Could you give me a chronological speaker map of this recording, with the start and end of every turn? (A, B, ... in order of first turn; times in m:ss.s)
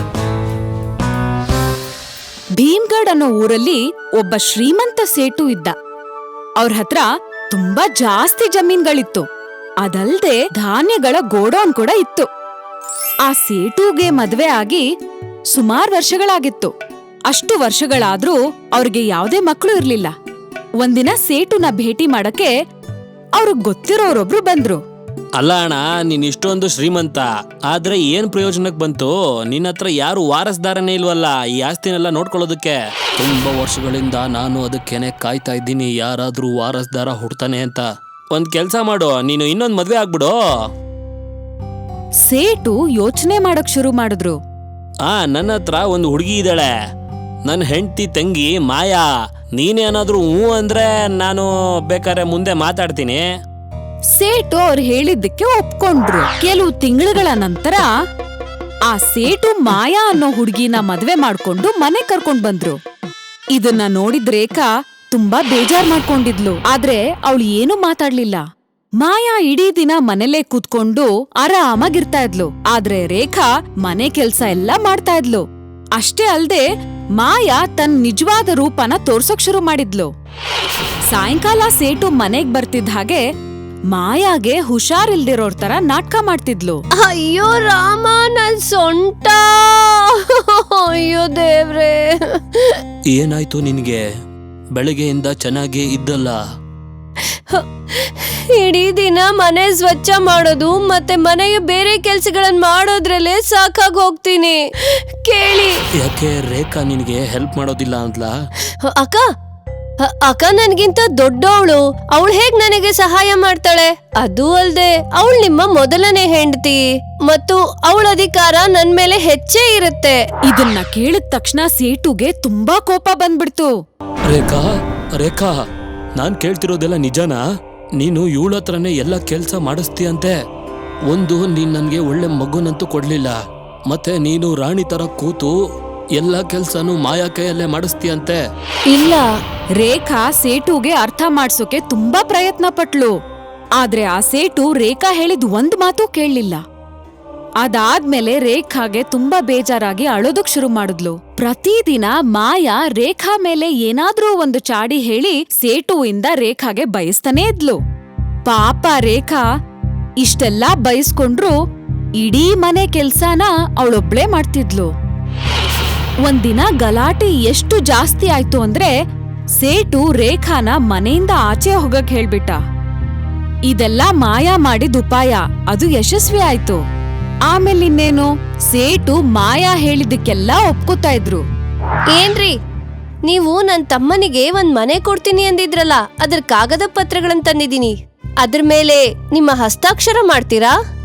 0:02.6-0:05.7 A
0:06.6-0:09.2 A
0:09.8-0:12.3 A
0:13.2-0:14.8 A
0:15.5-0:16.7 A
0:17.3-0:20.1 A
0:20.8-0:22.5 A
0:23.4-0:24.8 A
0:25.4-0:40.3 B
0:42.2-0:44.4 A
0:45.0-0:46.7 B
0:47.4-0:49.0 B
0:49.6-0:53.2 B
0:54.2-0:57.9 A
0:58.9-1:02.8 A
1:03.5-1:08.4 A
1:09.0-1:15.4 A
1:16.0-1:16.6 A
1:17.2-1:20.1 A
1:21.1-1:23.2 A
1:23.9-1:26.8 A
1:27.0-1:32.8 C
1:33.1-1:34.0 B
1:34.8-1:36.4 B
1:37.2-1:45.8 C
1:46.0-1:48.3 B
1:48.9-1:49.2 C
1:50.0-2:00.2 C
2:00.5-2:03.7 A
2:04.3-2:04.7 B
2:05.2-2:05.6 B
2:06.2-2:07.4 B
2:08.0-2:10.3 B
2:11.1-2:13.4 B
2:13.9-2:15.5 B
2:16.2-2:18.4 B
2:18.9-2:19.2 C
2:19.8-2:23.1 A
2:23.8-2:26.6 A
2:27.6-2:37.8 A
2:38.4-2:39.4 A
2:40.2-2:41.5 A
2:42.2-2:44.9 A
2:46.2-2:48.9 A
2:49.6-2:52.6 A
2:53.7-2:56.8 A
2:57.5-3:01.4 A
3:02.1-3:02.5 C
3:03.3-3:10.7 C